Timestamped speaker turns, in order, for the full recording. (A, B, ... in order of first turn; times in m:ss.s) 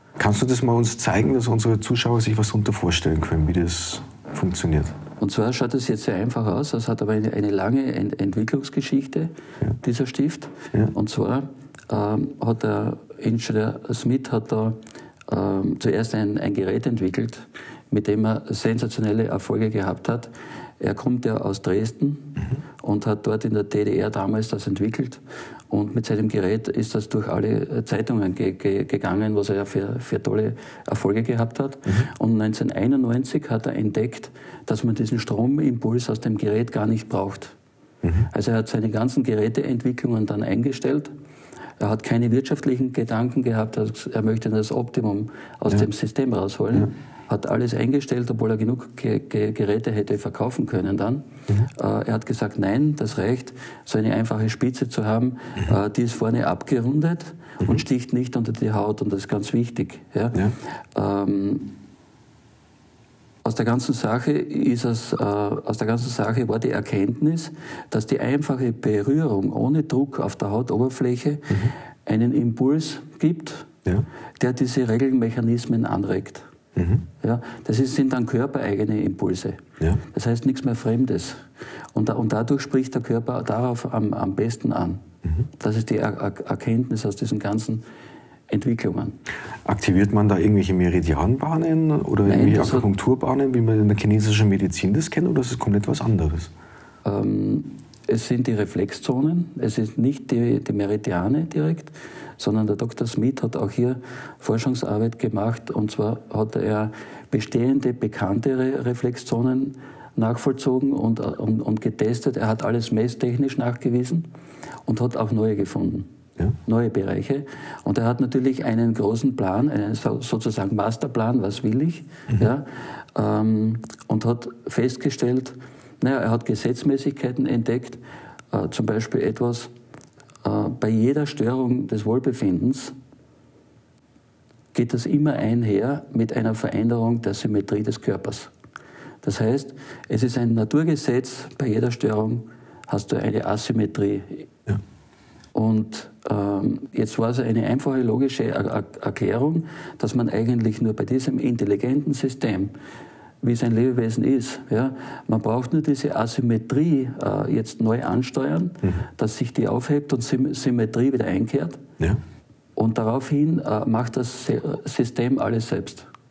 0:00.2-0:05.0 A
0:05.2-0:37.6 B
0:38.0-0:38.3 A
0:38.3-0:41.1 B
0:41.8-1:01.7 B
1:03.4-1:13.7 B
1:14.4-1:16.5 B
1:16.8-1:17.0 A
1:17.2-1:25.0 B
1:25.6-1:27.8 B
1:28.5-1:29.2 B
1:29.6-1:36.5 A
1:32.2-1:32.9 B
1:37.0-1:54.3 B
1:54.9-1:56.1 B
1:56.6-2:09.7 B
2:10.4-2:12.9 B
2:14.7-2:18.5 B
2:19.2-2:24.5 B
2:25.5-2:32.7 B
2:33.4-2:41.8 B
2:42.8-2:46.1 B